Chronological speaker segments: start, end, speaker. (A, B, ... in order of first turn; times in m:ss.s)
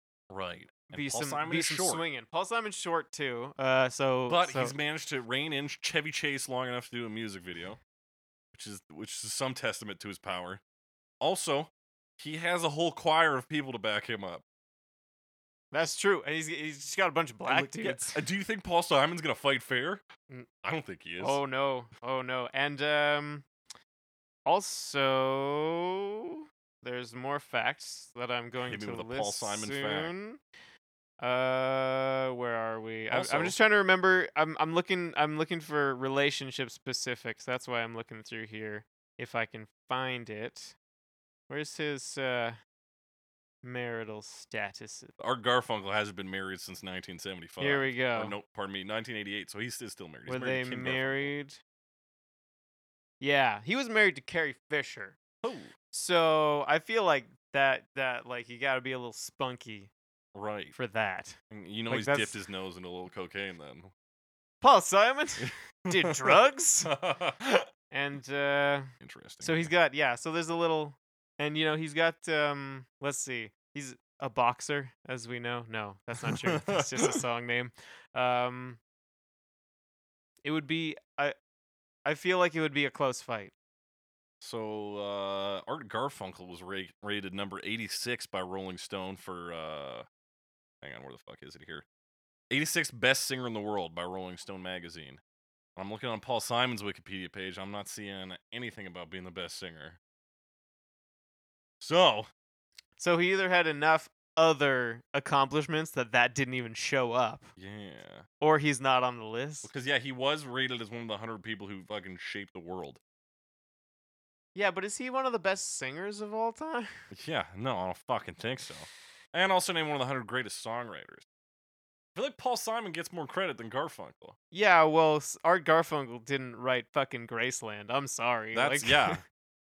0:00.3-0:02.0 A
0:00.9-0:04.7 B
0:04.3-0:07.8 A
0:08.5-0:10.6 A
0:11.2-0:14.4 A
0:15.7-0:18.2 B
0:17.4-0:20.0 A
0:20.6-0:21.4 A
0:21.2-0:23.4 B
0:24.4-0:30.4 B
0:28.7-0:30.1 A
0:31.2-0:40.7 B
0:33.1-0:33.6 A
0:41.5-0:42.6 B
0:43.6-0:45.1 B
0:45.2-0:51.3 A
0:47.6-0:48.3 B
0:50.3-0:51.6 B
0:53.2-0:55.2 B
0:55.4-0:55.7 A
0:55.9-0:59.9 B
1:00.3-1:00.7 A
1:00.7-1:02.4 B
1:01.5-1:03.9 A
1:04.6-1:06.9 B
1:05.4-1:07.7 A
1:07.9-1:08.9 B
1:09.0-1:09.7 A
1:09.4-1:18.8 B
1:16.2-1:17.2 A
1:20.4-1:21.3 B
1:22.0-1:23.5 B
1:24.4-1:30.0 A
1:30.8-1:31.8 A
1:32.5-1:35.2 A
1:35.8-1:40.0 A
1:41.8-1:42.3 A
1:43.0-1:47.5 B
1:47.6-1:48.3 A
1:48.4-1:49.7 B
1:49.6-1:53.0 A
1:54.5-1:57.0 B
1:57.1-2:01.2 A
2:02.1-2:04.4 A
2:04.5-2:09.2 B
2:08.5-2:09.2 A